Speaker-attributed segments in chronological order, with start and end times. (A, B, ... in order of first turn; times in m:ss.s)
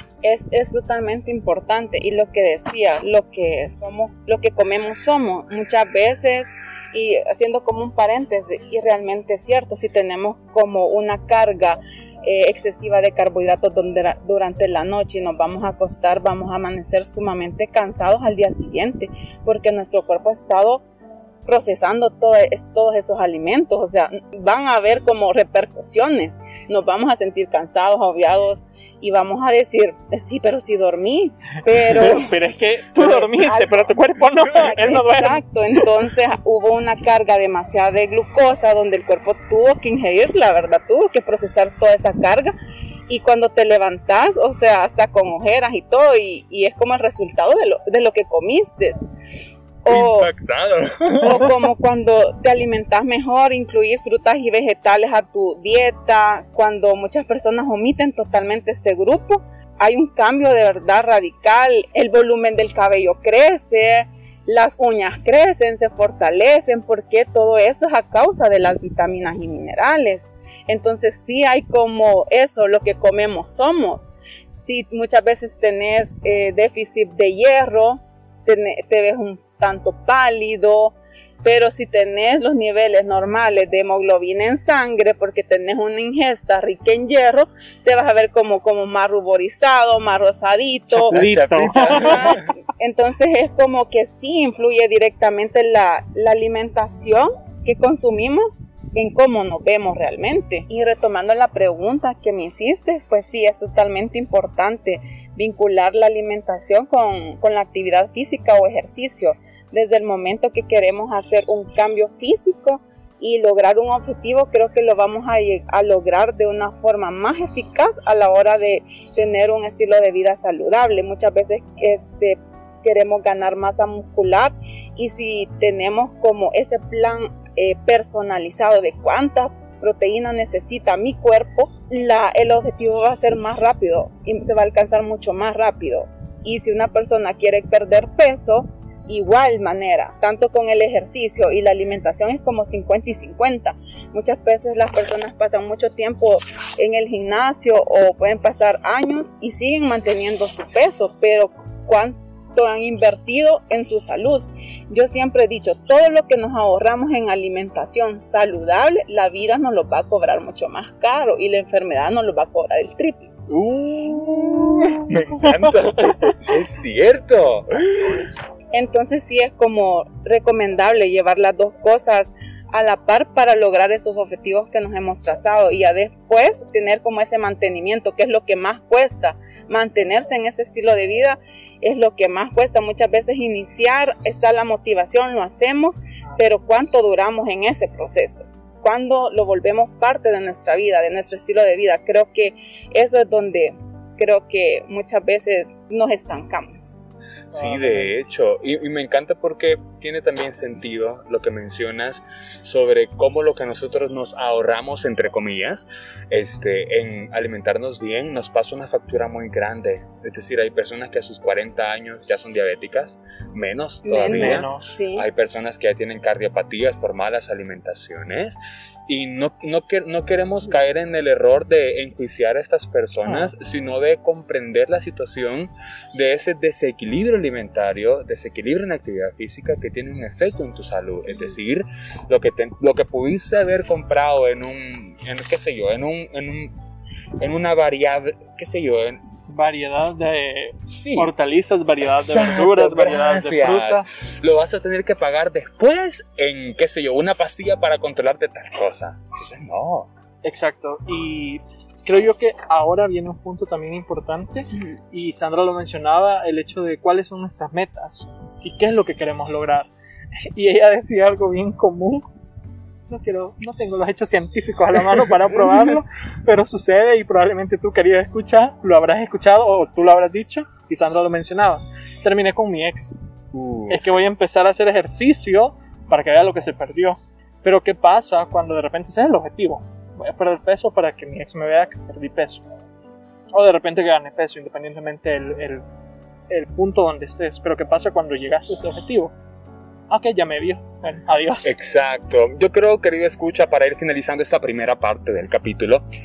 0:00.2-0:20.8 A
0:21.4-0:32.3 A
0:31.8-0:35.4 B
0:33.0-0:42.5 A
0:43.1-0:49.0 A
0:49.8-0:50.3 A
0:49.9-0:51.6 C
0:51.2-2:43.3 A
1:30.9-1:32.3 B
1:31.0-1:32.5 C
2:43.5-2:48.3 C
2:45.4-2:45.7 B
2:48.7-3:16.9 A
3:17.5-3:56.8 C
3:17.5-3:18.2 B
3:34.0-3:35.2 A
3:34.2-3:34.9 B
3:43.2-3:43.5 B
3:57.4-3:59.2 C
3:59.5-4:04.1 B
4:00.8-4:01.3 C
4:02.1-4:10.1 C
4:10.4-4:19.9 B
4:20.5-4:22.2 B
4:23.1-4:33.2 B
4:33.5-4:34.2 C
4:33.9-4:42.6 B
4:43.5-4:45.8 B
4:46.5-4:49.3 B
4:50.1-4:51.7 B
4:51.6-4:56.0 C